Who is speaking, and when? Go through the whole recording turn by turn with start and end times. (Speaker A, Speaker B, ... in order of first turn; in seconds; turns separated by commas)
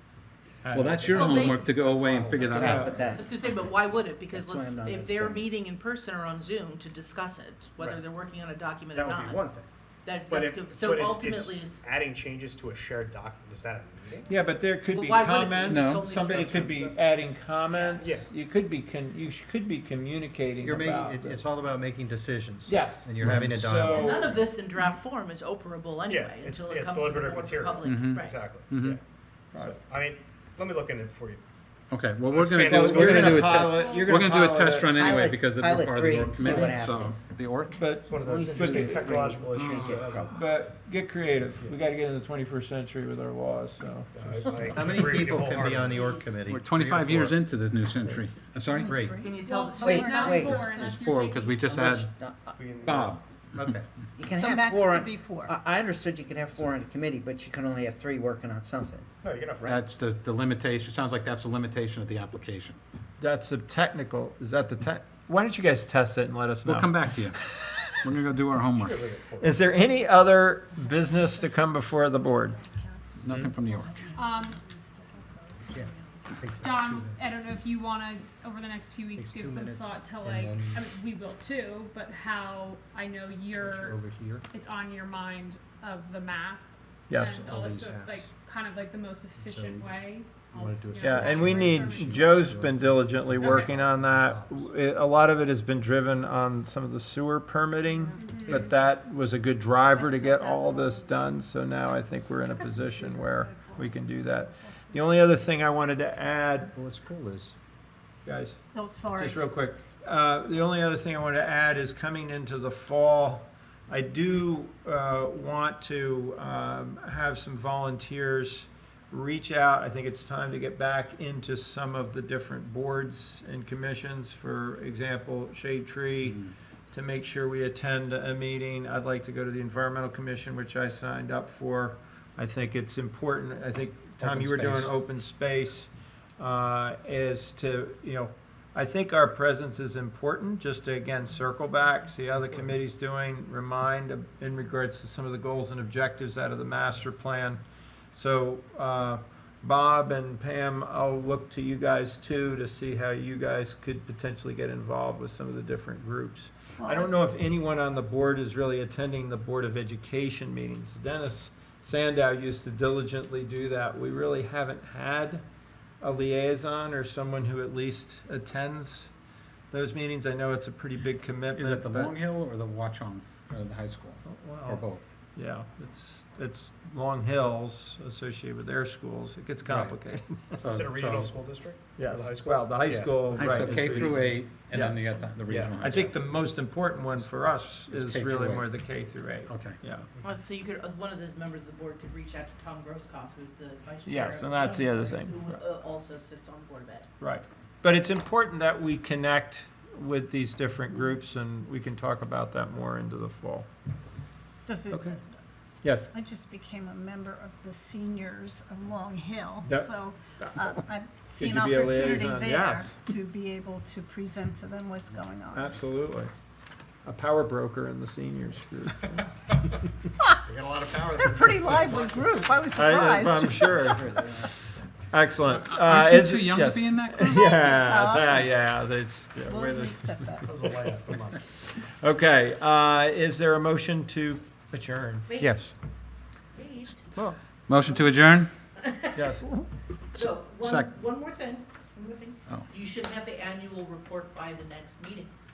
Speaker A: 0.7-1.4, Speaker B: 0.7-2.8, Speaker C: 0.8-3.2, Speaker D: 1.1-1.7, Speaker E: 2.6-3.2, Speaker D: 3.0-9.4, Speaker E: 4.3-5.5, Speaker C: 8.9-9.7, Speaker D: 10.0-11.8, Speaker C: 10.3-14.3, Speaker A: 14.2-21.4, Speaker D: 14.9-16.9, Speaker B: 15.7-16.2, Speaker C: 16.3-16.9, Speaker D: 17.7-18.1, Speaker C: 18.0-18.3, Speaker F: 20.6-24.1, Speaker A: 22.6-24.4, Speaker D: 23.9-28.3, Speaker C: 26.1-29.0, Speaker B: 27.8-29.0, Speaker C: 29.5-31.4, Speaker B: 31.9-37.9, Speaker C: 32.3-33.6, Speaker A: 32.7-35.0, Speaker E: 33.4-37.2, Speaker G: 33.7-34.2, Speaker A: 37.7-39.4, Speaker C: 38.0-40.3, Speaker E: 38.2-40.3, Speaker B: 39.5-39.9, Speaker A: 40.3-44.6, Speaker C: 44.1-46.0, Speaker F: 44.6-47.4, Speaker D: 45.8-46.3, Speaker B: 46.5-49.0, Speaker H: 48.7-49.4, Speaker F: 48.9-49.1, Speaker D: 49.1-50.6, Speaker G: 49.4-51.7, Speaker E: 49.8-50.7, Speaker H: 50.6-50.9, Speaker B: 50.6-52.1, Speaker E: 51.6-52.7, Speaker C: 52.6-53.2, Speaker B: 52.8-53.2, Speaker F: 53.5-53.8, Speaker E: 54.2-59.1, Speaker H: 54.3-55.5, Speaker C: 59.2-59.9, Speaker B: 59.6-62.8, Speaker A: 63.2-67.8, Speaker B: 66.6-67.4, Speaker B: 68.0-69.0, Speaker C: 68.7-69.7, Speaker A: 69.4-72.6, Speaker H: 70.9-71.5, Speaker H: 72.2-76.2, Speaker B: 73.2-74.1, Speaker G: 74.1-74.6, Speaker F: 75.7-77.3, Speaker G: 76.4-92.6, Speaker F: 79.2-80.8, Speaker F: 83.6-84.4, Speaker A: 87.1-87.4, Speaker F: 87.3-88.3, Speaker F: 89.4-89.9, Speaker F: 90.5-94.6, Speaker A: 91.0-106.7, Speaker G: 93.3-93.7, Speaker G: 98.1-98.6, Speaker H: 99.9-101.3, Speaker H: 103.1-103.8, Speaker F: 106.8-107.5, Speaker A: 108.2-108.6, Speaker H: 108.7-109.4, Speaker A: 109.1-147.6, Speaker B: 134.2-134.9, Speaker A: 148.1-165.4, Speaker H: 156.8-157.1, Speaker A: 166.0-169.1, Speaker A: 169.7-172.2, Speaker B: 171.5-175.1, Speaker A: 174.2-180.6, Speaker B: 179.6-179.9, Speaker C: 180.6-184.0, Speaker B: 180.6-181.3, Speaker A: 181.9-185.0, Speaker B: 183.4-186.2, Speaker C: 185.4-186.1, Speaker A: 185.8-190.1, Speaker B: 187.9-188.7, Speaker B: 189.5-189.8, Speaker D: 190.2-197.1, Speaker A: 194.1-195.6, Speaker A: 197.2-203.7, Speaker H: 204.7-205.2, Speaker A: 205.8-206.1, Speaker H: 206.1-215.8, Speaker A: 209.6-213.0, Speaker A: 215.5-216.3, Speaker A: 217.0-219.2, Speaker C: 220.4-222.8, Speaker H: 221.1-223.8, Speaker A: 222.7-224.5, Speaker E: 223.8-224.5, Speaker A: 225.1-230.4, Speaker B: 225.5-227.4, Speaker H: 227.2-228.6, Speaker H: 229.4-230.4, Speaker C: 230.4-231.4, Speaker A: 232.0-235.3, Speaker D: 235.3-235.7, Speaker F: 235.4-235.7, Speaker D: 236.5-237.0, Speaker B: 237.1-238.5, Speaker D: 238.8-239.2, Speaker A: 239.1-239.7, Speaker B: 240.1-240.9, Speaker D: 240.1-245.3